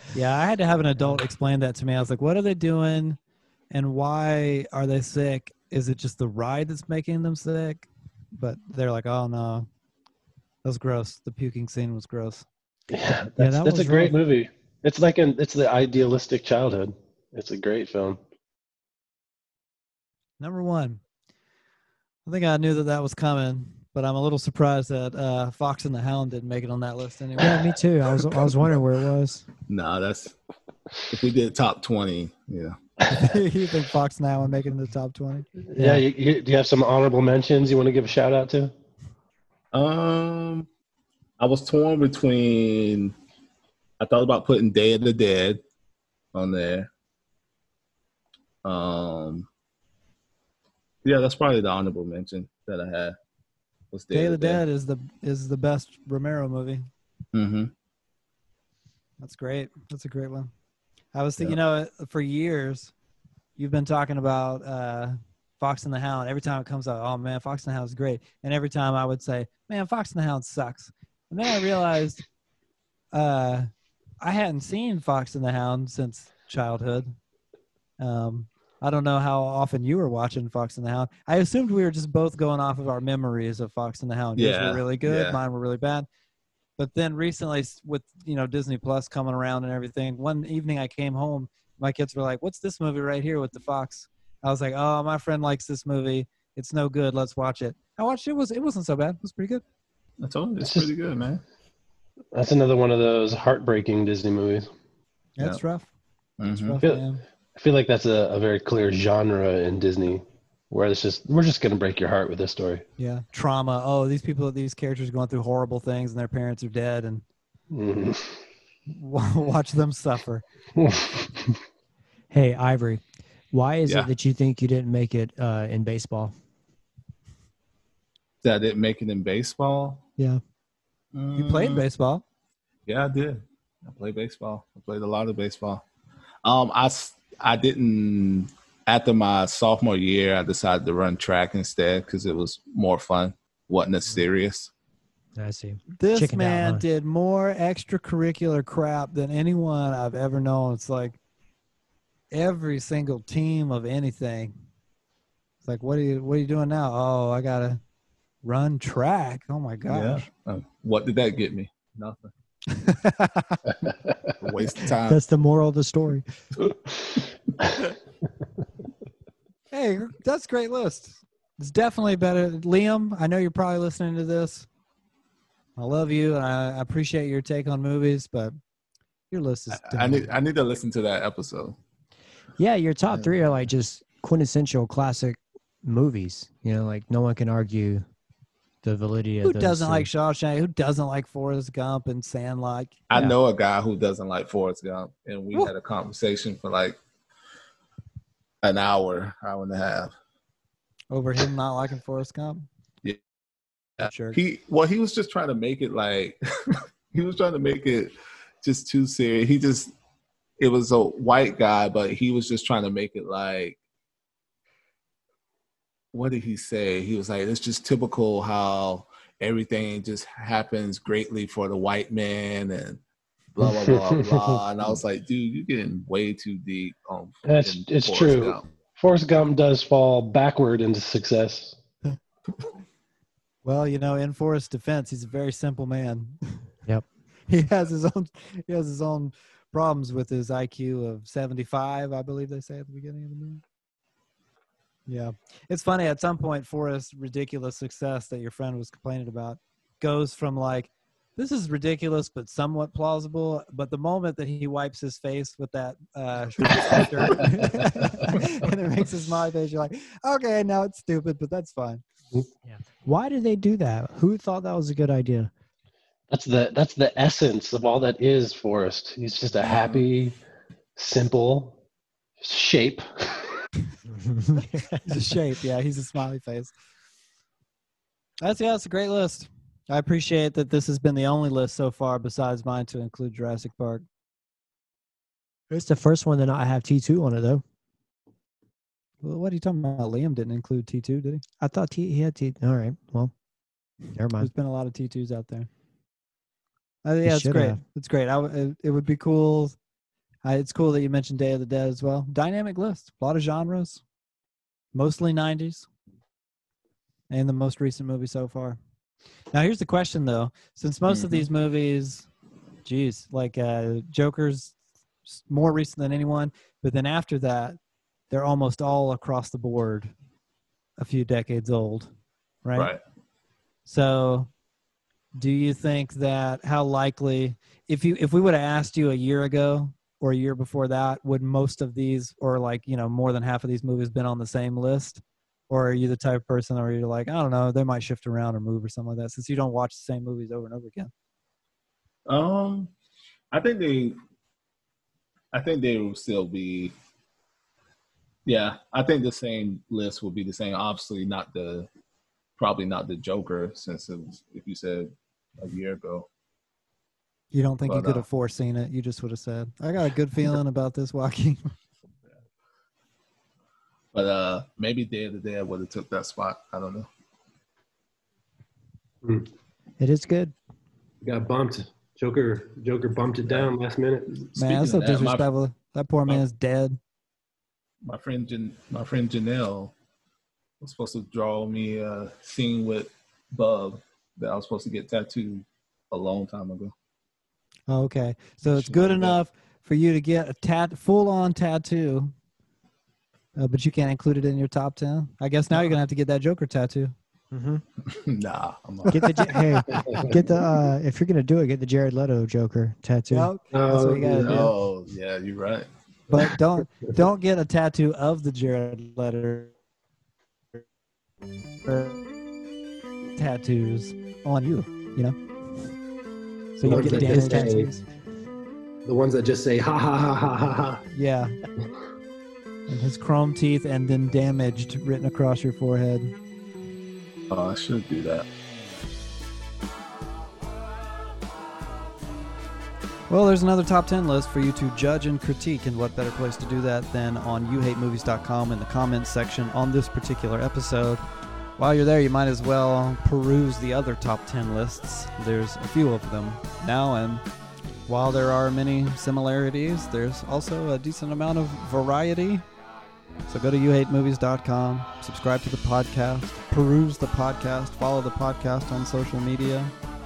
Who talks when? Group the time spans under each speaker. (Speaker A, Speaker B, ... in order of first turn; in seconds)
Speaker A: 0.1-3.2, 3.7-9.7, 10.6-12.4, 20.4-21.0, 22.2-27.7, 33.1-35.5, 54.1-56.9, 59.2-60.5, 61.1-62.9, 63.6-72.2, 73.1-73.7, 74.2-77.1, 78.0-86.0, 86.8-99.6, 105.4-105.9, 106.5-107.2, 113.0-117.2, 118.9-120.4, 131.3-132.2, 145.9-151.2, 152.3-154.5, 155.6-157.8, 158.4-160.3, 162.7-163.6, 169.7-174.7, 175.8-178.5, 179.3-180.3, 189.4-193.0, 201.1-202.7, 204.0-204.4, 233.6-236.6, 237.5-243.6, 245.1-262.0, 275.1-276.7, 278.4-284.0, 289.2-291.4, 294.4-295.7, 297.0-299.8, 300.4-304.0, 304.9-305.9, 307.3-308.8, 309.5-312.3, 312.8-317.8, 318.3-320.1, 321.0-322.1, 322.6-322.9, 323.9-324.5, 325.4-341.1, 357.5-361.7, 374.6-377.0, 387.9-392.3, 393.6-397.1, 403.3-404.7, 406.3-409.7, 411.9-412.2, 413.4-415.3, 416.8-418.0, 421.1-421.6, 422.9-426.3, 433.3-441.2, 441.8-447.4, 448.1-452.6, 453.5-459.9
Speaker B: 12.9-18.2, 35.6-38.7, 100.6-100.9, 102.3-104.7, 107.5-112.8, 117.7-118.4, 120.8-121.5, 223.7-224.6, 227.4-231.8, 266.3-270.4, 270.9-271.8, 272.4-273.5, 371.2-374.3, 403.7-404.6, 416.9-417.9, 419.1-421.0
Speaker C: 13.4-14.1, 27.4-29.4, 35.8-36.0, 122.3-126.3, 145.3-146.8, 165.1-166.2, 182.6-188.1, 188.8-190.1, 262.6-265.5, 274.1-275.2, 285.7-287.6, 291.6-293.3, 294.1-294.5, 297.2-297.8, 370.0-370.5, 397.5-397.8, 399.1-403.5, 416.9-417.8
Speaker D: 29.7-30.3, 31.1-32.8, 39.7-40.7, 41.4-43.1, 44.0-45.6, 46.3-46.9, 48.6-49.5, 51.0-53.1, 53.9-54.6, 57.3-57.7, 84.3-85.4, 100.2-101.4, 106.4-106.8, 128.4-130.1, 131.1-131.8, 132.9-135.8, 136.4-144.7, 159.9-162.3, 164.4-165.2, 179.7-181.8, 183.1-183.4, 193.1-197.0, 198.6-200.1, 204.0-209.9, 210.6-213.8, 216.1-223.0, 223.5-228.6, 269.7-270.0, 311.1-311.5, 322.7-323.0, 342.3-342.9, 343.5-344.2, 345.5-346.9, 348.4-351.9, 352.6-356.3, 357.9-358.2, 364.1-367.1, 373.5-373.7, 374.3-375.4, 378.0-379.9, 380.8-386.9, 388.6-389.4, 398.1-400.3, 404.4-405.9, 427.5-428.5